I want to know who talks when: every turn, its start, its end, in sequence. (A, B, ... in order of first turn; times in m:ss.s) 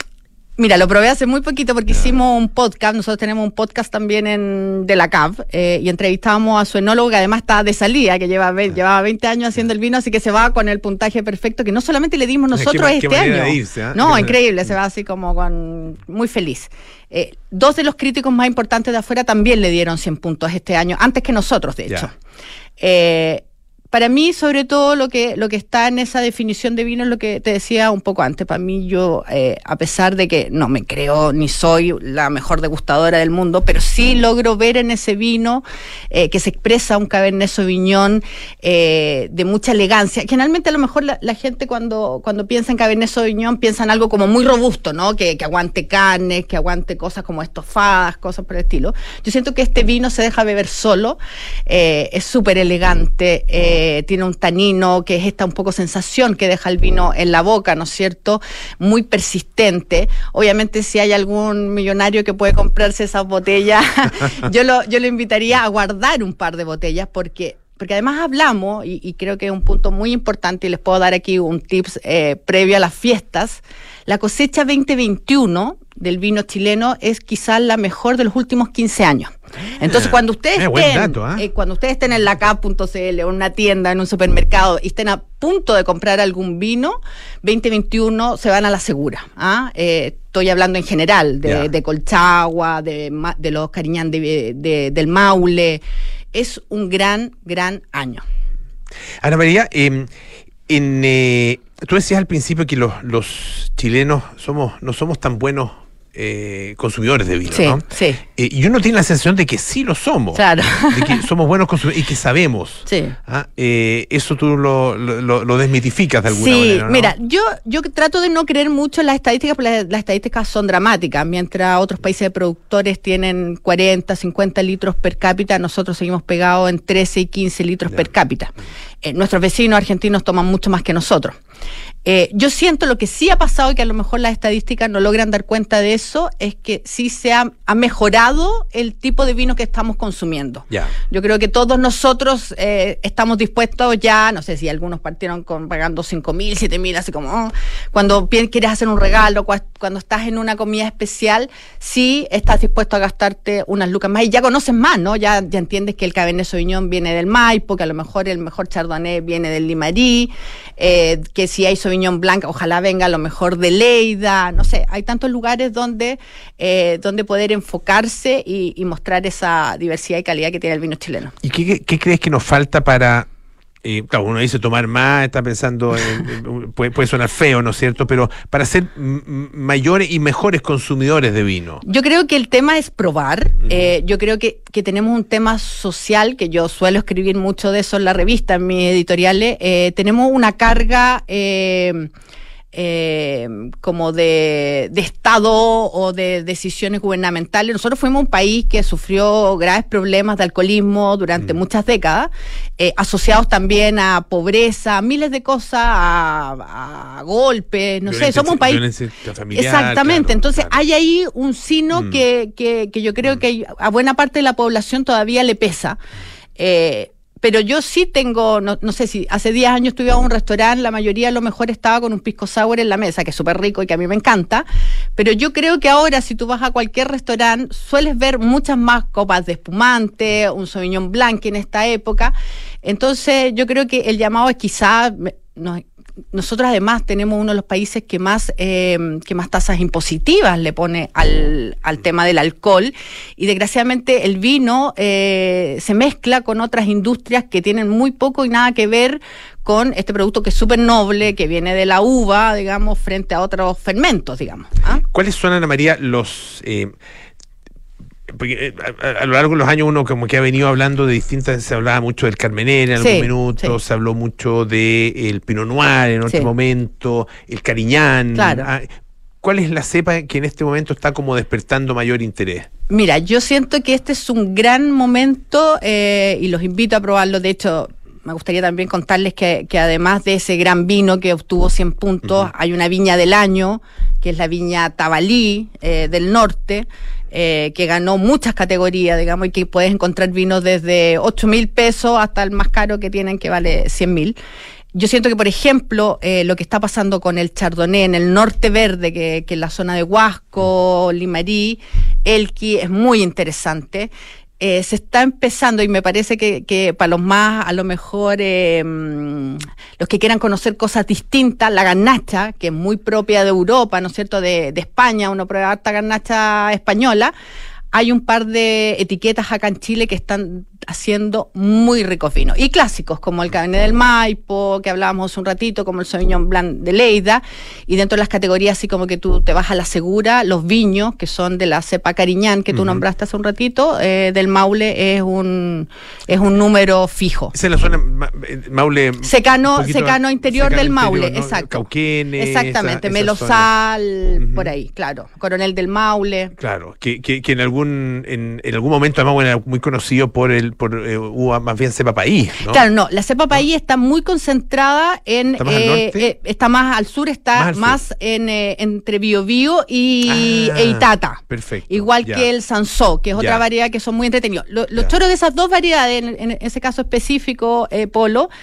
0:00.6-0:22.1 A
0:12.5-0:14.4 B
0:22.8-1:35.8 A
1:19.6-1:21.4 B
1:31.4-1:31.7 B
1:36.3-1:38.2 A
1:39.2-1:40.1 B
1:40.7-1:47.8 B
1:47.5-1:48.2 A
1:48.4-1:57.1 B
1:50.3-1:51.2 A
1:52.9-1:53.1 A
1:56.3-2:08.5 A
2:09.0-2:11.4 A
2:12.0-2:51.3 A
2:51.4-2:53.3 B
2:53.8-3:01.8 B
3:01.8-3:12.1 A
3:12.7-3:28.8 A
3:28.1-3:30.8 B
3:29.5-3:36.0 A
3:31.9-3:32.2 B
3:36.6-4:15.0 A
4:15.1-4:16.9 B
4:18.3-4:28.9 B
4:23.0-4:23.8 A
4:28.4-4:28.7 A
4:29.4-4:32.7 B
4:32.9-4:54.4 A
4:42.2-4:42.5 B
4:54.9-5:17.3 A
5:17.9-5:37.5 A
5:32.7-5:33.0 B
5:37.5-5:43.7 B
5:39.2-5:46.5 A
5:44.4-5:44.7 B
5:46.6-5:52.8 B
5:52.7-6:08.5 A
5:55.6-5:56.3 B
5:57.6-5:58.0 B
6:00.3-6:02.5 B
6:03.4-6:03.6 B